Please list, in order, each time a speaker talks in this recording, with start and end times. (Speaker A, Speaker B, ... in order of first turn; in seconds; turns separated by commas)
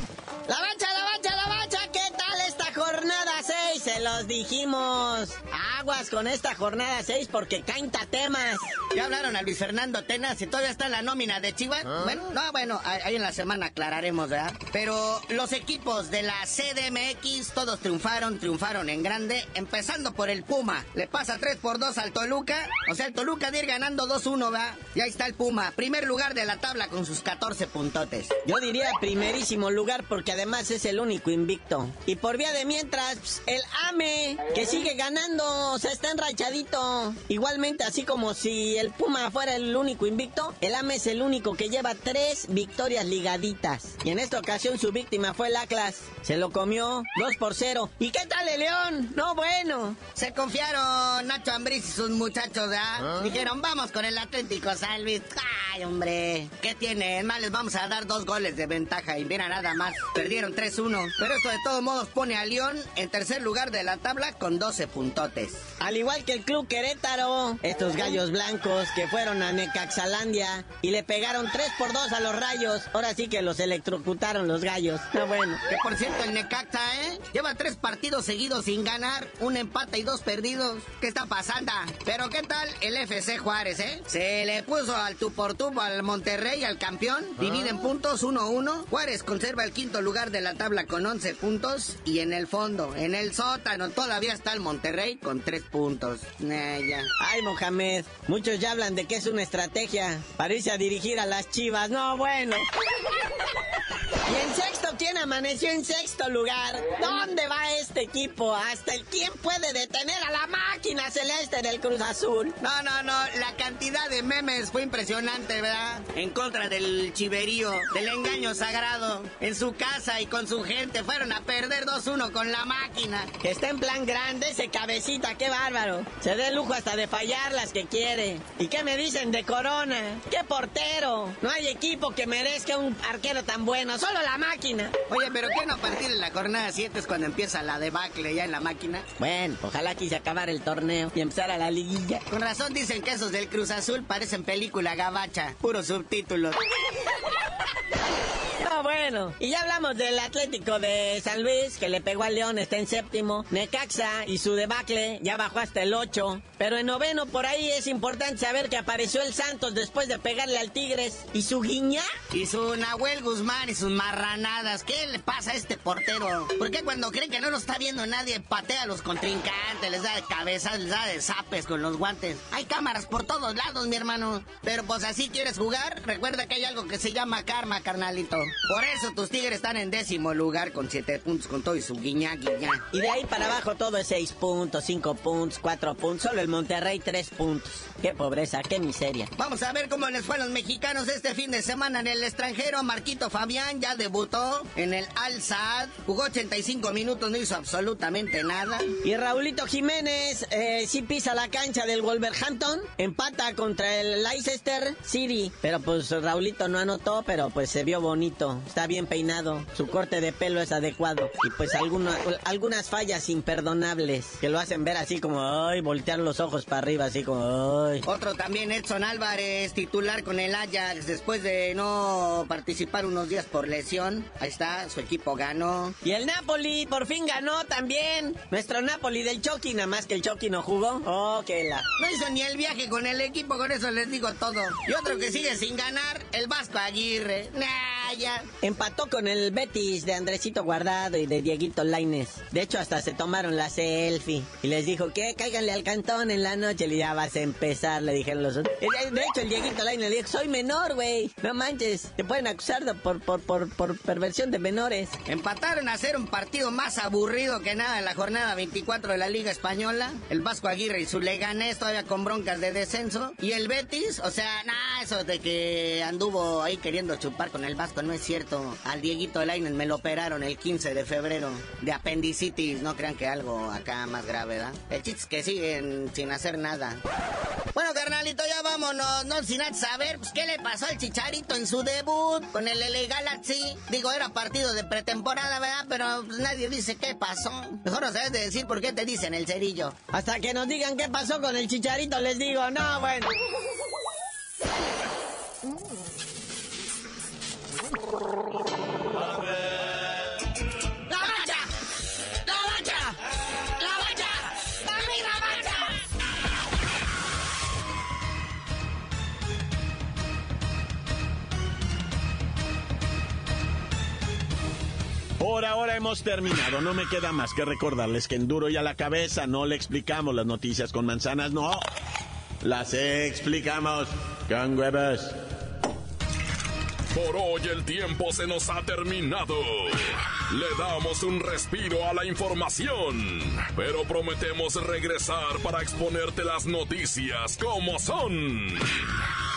Speaker A: 0.5-8.7, Speaker B: 8.9-28.3, Speaker A: 28.4-50.0, Speaker B: 50.1-65.6, Speaker A: 65.8-75.6, Speaker B: 75.7-97.1, Speaker A: 97.2-102.7, Speaker A: 104.2-112.5, Speaker B: 112.6-123.3, Speaker A: 123.4-134.9, Speaker B: 135.1-139.1, Speaker A: 139.2-142.2, Speaker B: 142.3-146.6, Speaker A: 148.6-162.1, Speaker B: 162.3-182.8, Speaker A: 182.9-189.3, Speaker B: 189.4-198.9, Speaker A: 199.0-218.0, Speaker B: 218.1-225.9, Speaker A: 226.0-231.8, Speaker B: 232.0-238.5, Speaker A: 238.6-255.1, Speaker B: 255.3-277.0, Speaker B: 277.7-289.9, Speaker A: 290.1-293.3, Speaker B: 301.2-301.6, Speaker B: 302.6-302.9, Speaker B: 303.8-305.7, Speaker C: 315.4-321.8, Speaker C: 322.6-325.4, Speaker D: 327.1-339.3